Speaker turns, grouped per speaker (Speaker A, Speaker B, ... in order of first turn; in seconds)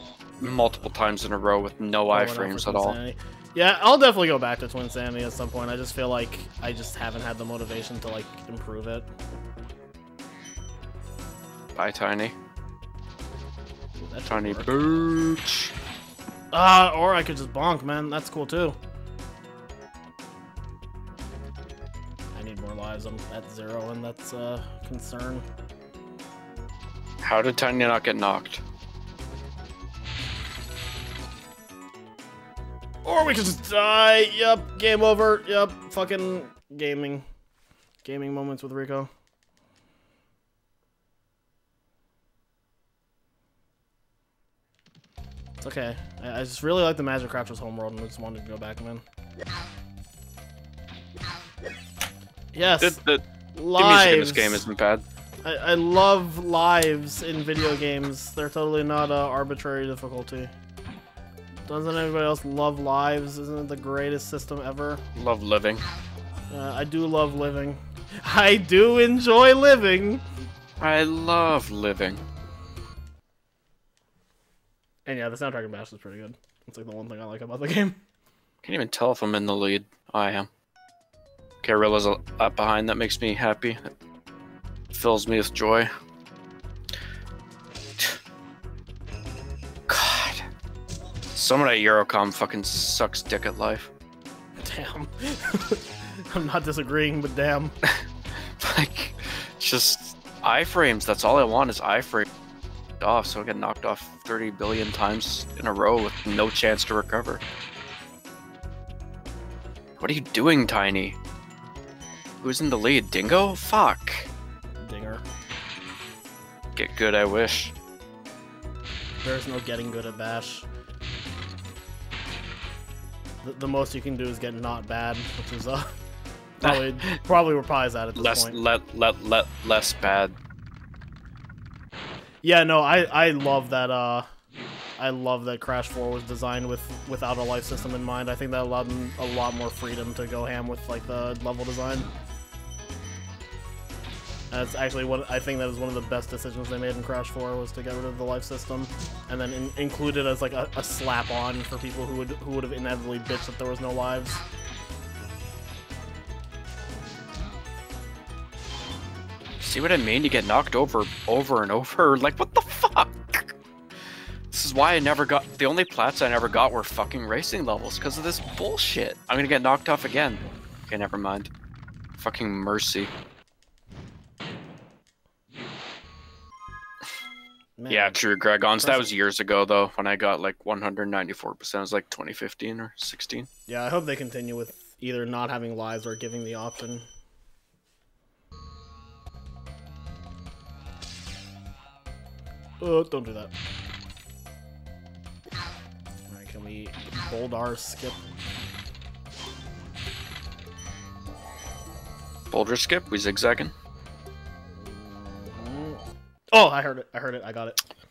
Speaker A: 0.4-3.0, 11.8-12.3, 14.3-15.7, 27.2-28.6, 52.8-53.2, 53.8-55.0, 65.2-65.8, 70.8-72.2, 78.6-80.5, 81.6-83.9, 84.9-85.9, 89.9-90.5, 91.3-93.9, 98.6-102.3, 103.0-107.4, 110.0-111.2, 112.4-114.3, 116.8-117.7, 126.7-127.2, 128.2-130.3, 159.6-163.5, 164.5-171.5, 172.2-173.1, 177.9-183.5, 202.5-203.7
Speaker B: 2.1-9.1, 14.0-14.7, 16.5-18.8, 22.3-25.4, 33.0-37.3, 38.0-39.1, 45.6-49.0, 52.5-53.0, 53.5-54.6, 55.4-60.5, 61.7-65.0, 66.5-70.2, 75.1-78.0, 94.6-97.7, 114.8-115.2, 119.2-120.7, 123.4-126.0, 126.6-128.6, 132.4-134.3, 135.0-142.1, 144.5-154.4, 177.8-178.2, 178.8-179.2, 183.7-187.1, 192.8-193.5, 196.3-198.2, 204.8-206.0, 206.5-207.8